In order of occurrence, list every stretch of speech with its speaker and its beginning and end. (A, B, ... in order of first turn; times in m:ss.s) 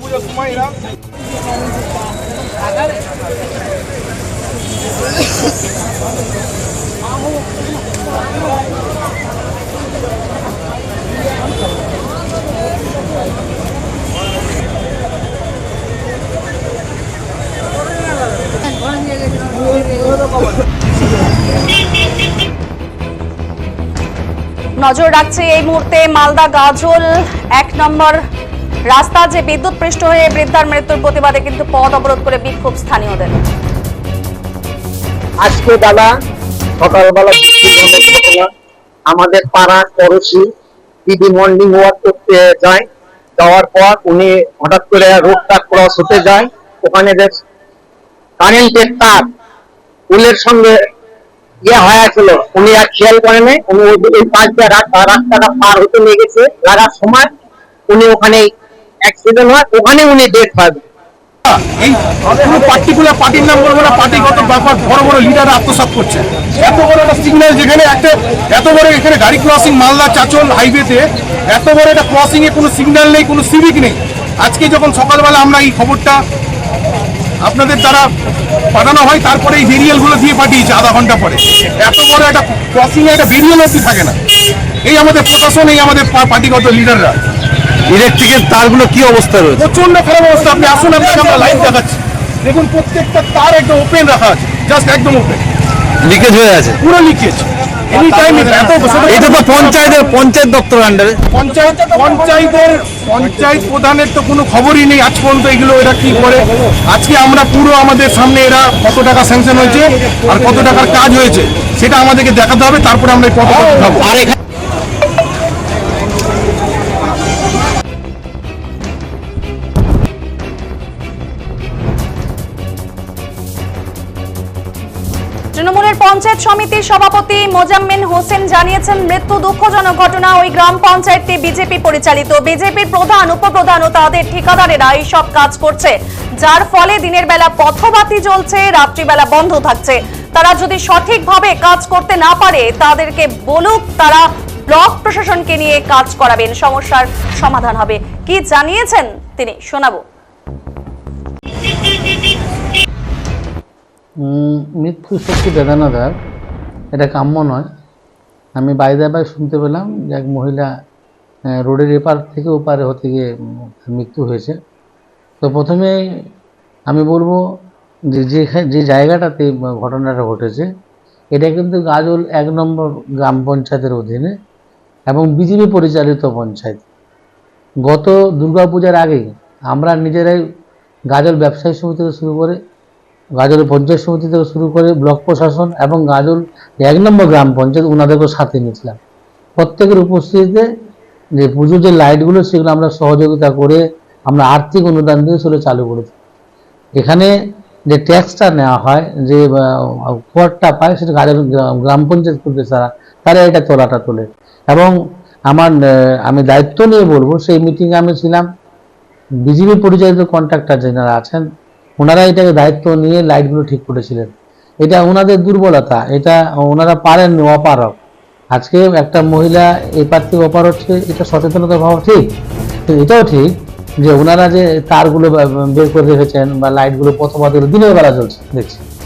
0:00.2-0:00.6 A
0:24.8-0:28.2 B
0:28.9-0:33.3 B
0:35.4-0:36.1 C
0:36.8-0:38.5 C
0:39.1-0:40.5 C
0:41.1-0:42.8 C
0:43.4-0:47.4 C
0:48.4-0:49.3 C
0:50.1-0:50.8 C
0:51.6-0:57.3 C
0:57.9-0:58.5 C
0:59.0-1:00.8 C
1:01.4-1:16.2 A
1:17.4-1:18.1 A
1:18.7-1:24.2 A
1:24.8-1:27.2 A
1:27.9-1:29.6 D
1:29.6-1:35.4 A
1:36.0-1:36.8 D
1:36.8-1:40.0 A
1:39.1-1:41.2 D
1:41.3-1:54.3 A
2:05.5-2:30.0 B
2:34.2-2:36.1 E
2:37.0-2:37.6 E
2:38.6-2:40.7 E
2:41.5-2:43.3 E
2:43.8-2:44.6 E
2:45.4-2:46.0 E
2:46.9-2:47.4 E
2:48.1-2:50.7 E
2:51.3-2:54.3 E
2:55.1-2:56.8 E
2:57.8-3:00.4 E
3:01.1-3:02.6 E
3:03.4-3:09.0 E
3:09.6-3:10.7 E
3:11.4-3:16.1 E
3:17.0-3:17.3 E
3:17.9-3:24.9 E
3:26.3-3:28.4 E
3:29.4-3:31.4 E
3:32.0-3:34.3 E
3:34.8-3:38.0 E
3:38.5-3:42.3 E
3:42.9-3:48.8 E